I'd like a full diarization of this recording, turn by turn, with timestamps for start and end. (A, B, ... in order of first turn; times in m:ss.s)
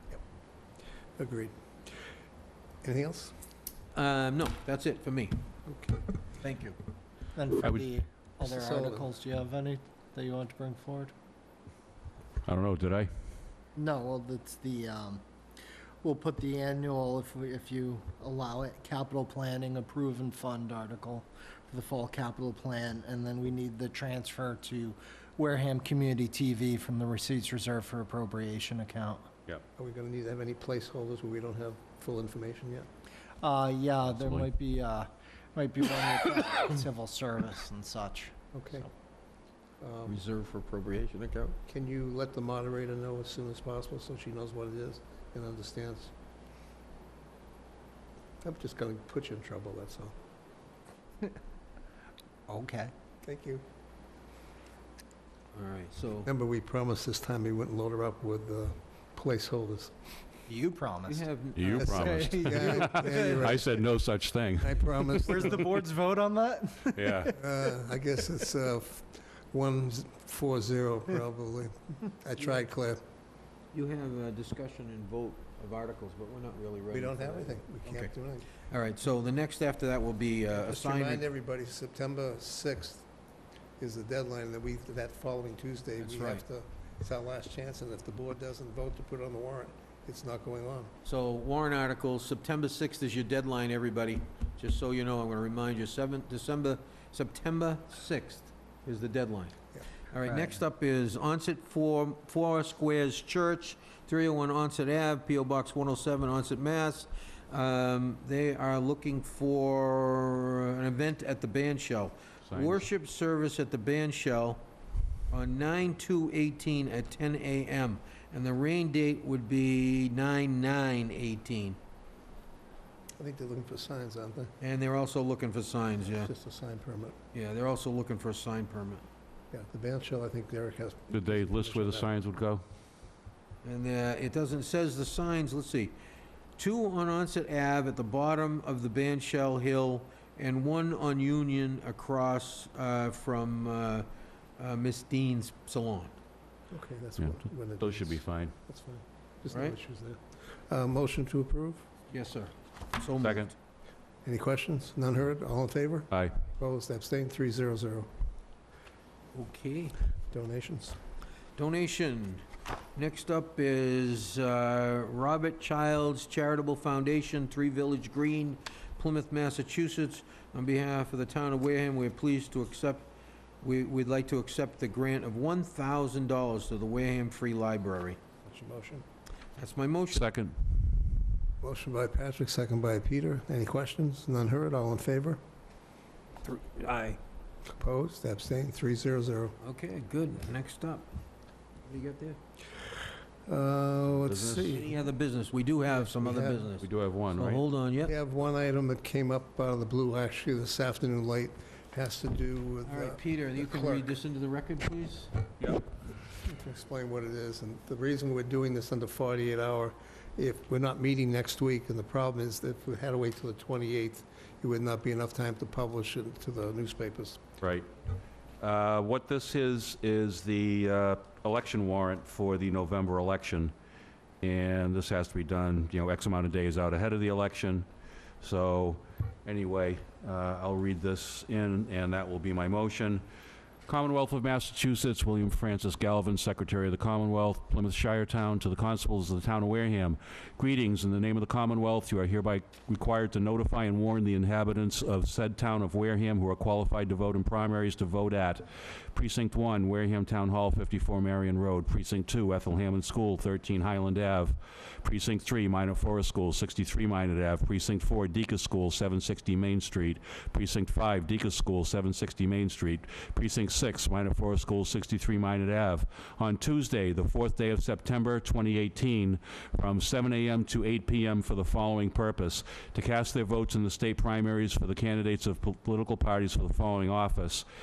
0:01.2-0:01.5 A
0:02.8-0:03.3 A
0:04.0-0:05.4 B
0:05.7-0:06.0 A
0:06.4-0:06.8 B
0:07.4-0:11.1 C
0:07.6-0:07.9 D
0:08.4-0:09.1 A
0:12.4-0:13.1 D
0:13.8-0:15.2 C
0:16.0-0:29.3 C
0:29.8-0:32.9 A
0:33.4-0:38.3 C
0:34.0-0:34.5 D
0:38.5-0:38.9 A
0:39.8-0:40.2 A
0:40.0-0:41.6 B
0:41.7-0:46.1 A
0:48.4-0:50.1 A
0:52.5-0:52.9 C
0:53.2-0:53.6 A
0:55.5-0:56.3 B
0:56.3-0:59.9 A
1:00.5-1:01.3 C
1:01.1-1:03.2 B
1:01.5-1:05.7 D
1:01.8-1:03.4 C
1:02.5-1:03.7 A
1:04.6-1:05.7 A
1:05.3-1:07.4 C
1:06.9-1:07.3 D
1:07.4-1:13.0 A
1:13.7-1:18.1 B
1:16.9-1:18.5 A
1:18.7-1:21.2 B
1:20.6-1:23.1 A
1:23.8-1:30.9 A
1:26.0-1:26.4 B
1:31.0-1:39.6 B
1:40.1-1:54.6 B
1:52.5-1:52.8 D
1:55.3-2:01.8 B
2:03.2-2:04.5 A
2:04.6-2:06.3 B
2:06.2-2:07.2 A
2:07.3-2:09.0 B
2:09.5-2:12.1 A
2:11.1-2:12.6 D
2:13.6-2:16.0 B
2:16.6-2:24.1 B
2:24.6-2:26.1 B
2:26.7-2:31.9 A
2:27.2-2:28.5 D
2:29.5-2:29.8 B
2:32.1-2:33.5 B
2:33.2-2:33.5 D
2:34.2-2:38.1 A
2:39.3-2:40.0 B
2:40.3-2:41.0 A
2:41.6-2:53.1 B
2:53.6-2:58.2 B
2:58.5-2:59.0 A
2:59.6-3:00.3 B
3:00.1-3:00.8 D
3:01.6-3:05.4 A
3:06.4-3:07.2 B
3:07.8-3:09.5 A
3:09.6-3:11.1 B
3:11.8-3:12.4 B
3:13.5-3:14.9 A
3:14.2-3:14.8 D
3:14.7-3:18.1 B
3:16.2-3:16.7 A
3:16.8-3:17.6 D
3:18.0-3:24.1 A
3:22.8-3:25.3 B
3:25.6-3:25.9 D
3:26.4-3:37.4 A
3:37.6-3:37.9 D
3:38.6-3:43.7 D
3:44.4-3:47.8 D
3:48.4-3:53.2 D
3:53.8-4:37.6 D